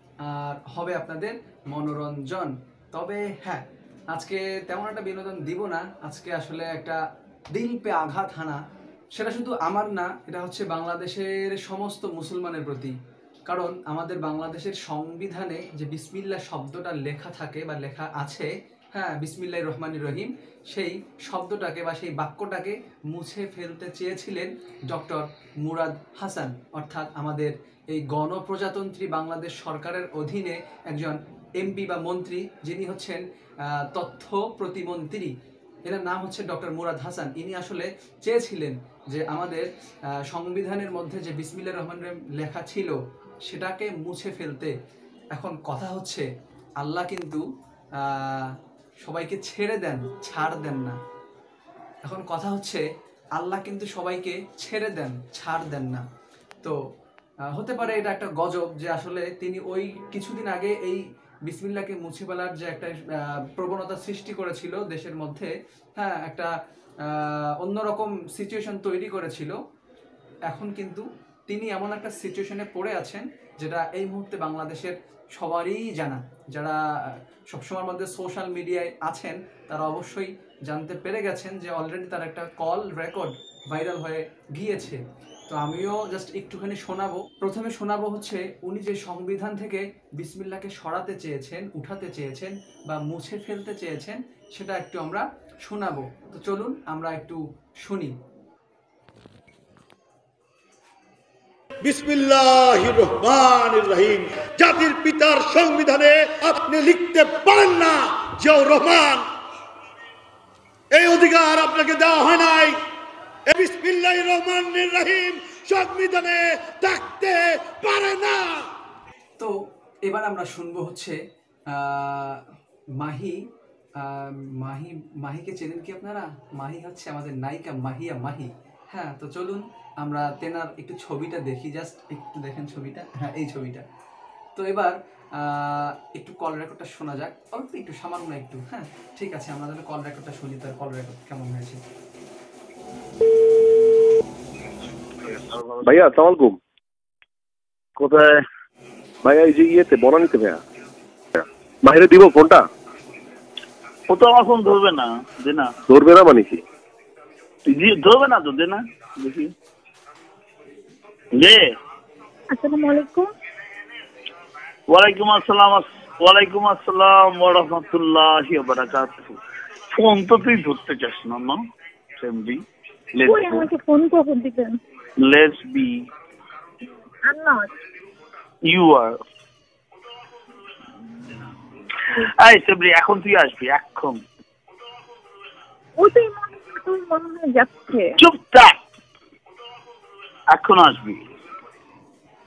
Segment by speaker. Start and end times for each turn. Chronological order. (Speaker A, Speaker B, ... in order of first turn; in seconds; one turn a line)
Speaker A: 0.2-7.0
Speaker A: 7.5-8.6
Speaker A: 9.1-12.9
Speaker A: 13.4-35.3
Speaker A: 35.8-39.7
Speaker A: 40.2-44.7
Speaker A: 45.3-46.3
Speaker A: 46.8-47.4
Speaker A: 48.0-51.0
Speaker A: 52.0-52.8
Speaker A: 53.4-56.0
Speaker A: 57.5-66.5
Speaker A: 67.0-69.5
Speaker A: 70.5-98.2
Speaker B: 101.8-109.2
Speaker B: 110.9-112.8
Speaker B: 113.5-118.6
Speaker A: 120.0-122.4
Speaker A: 123.0-123.4
Speaker A: 124.0-133.8
Speaker A: 134.5-141.8
Speaker C: 145.2-145.9
Speaker D: 145.8-146.6
Speaker D: 148.0-148.4
Speaker D: 149.2-150.6
Speaker D: 151.3-152.7
Speaker C: 154.1-155.7
Speaker D: 155.9-156.6
Speaker C: 157.7-159.5
Speaker C: 161.3-161.7
Speaker E: 162.5-163.3
Speaker C: 164.9-169.4
Speaker C: 169.9-171.6
Speaker C: 172.2-172.6
Speaker C: 173.1-173.7
Speaker E: 173.2-174.8
Speaker C: 175.2-176.0
Speaker E: 177.2-177.7
Speaker C: 178.7-179.1
Speaker C: 182.1-184.2
Speaker E: 186.0-188.2
Speaker C: 188.2-188.7
Speaker C: 190.5-191.2